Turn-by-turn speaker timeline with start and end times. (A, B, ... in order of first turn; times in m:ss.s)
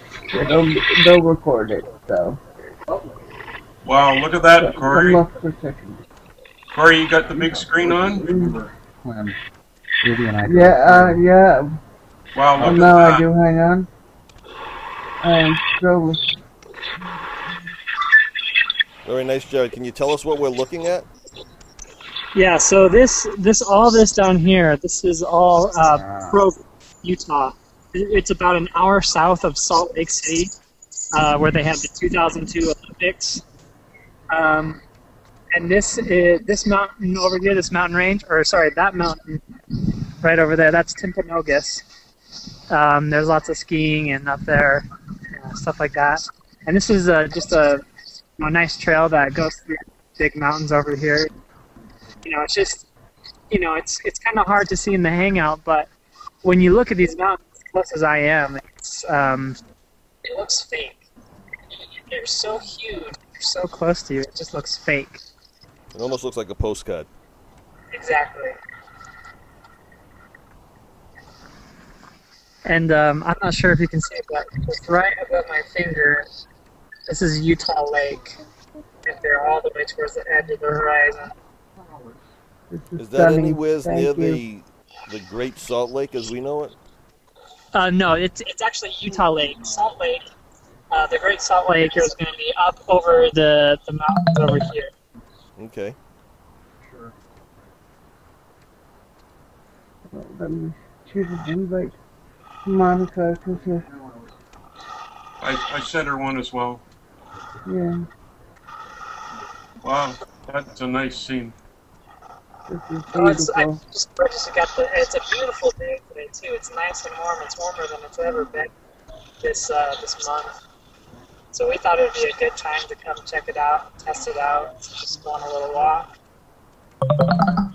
0:00.3-0:02.4 A
0:03.8-0:05.2 B
0:04.6-0:06.0 A
0:06.7-0:08.2 B
0:07.2-0:09.4 C
0:08.1-0:08.6 A
0:10.0-0:11.2 C
0:10.4-0:11.8 A
0:12.3-0:13.3 B
0:12.6-0:13.9 A
0:15.2-0:16.4 A
0:19.0-0:21.1 D
0:22.3-0:30.5 E
0:25.9-0:26.4 C
0:31.1-0:33.4 E
0:34.3-0:34.8 E
0:35.5-0:39.4 E
0:40.2-0:41.8 E
0:42.7-0:47.8 E
0:48.4-0:51.3 E
0:52.2-0:52.9 E
0:53.5-0:55.9 E
0:56.4-0:59.6 E
1:00.2-1:01.0 E
1:02.0-1:05.2 E
1:05.9-1:07.1 D
1:07.9-1:08.6 E
1:12.6-1:16.3 E
1:17.1-1:18.4 E
1:19.0-1:21.3 E
1:22.7-1:24.4 A
1:23.0-1:26.8 D
1:27.7-1:30.3 E
1:30.9-1:34.9 E
1:35.6-1:36.0 D
1:40.1-1:42.0 A
1:42.6-1:43.9 A
1:45.4-1:46.8 B
1:47.6-1:48.0 A
1:49.8-1:51.5 B
1:52.7-1:53.8 A
1:53.1-1:58.7 E
1:59.4-2:00.5 E
2:01.5-2:06.1 E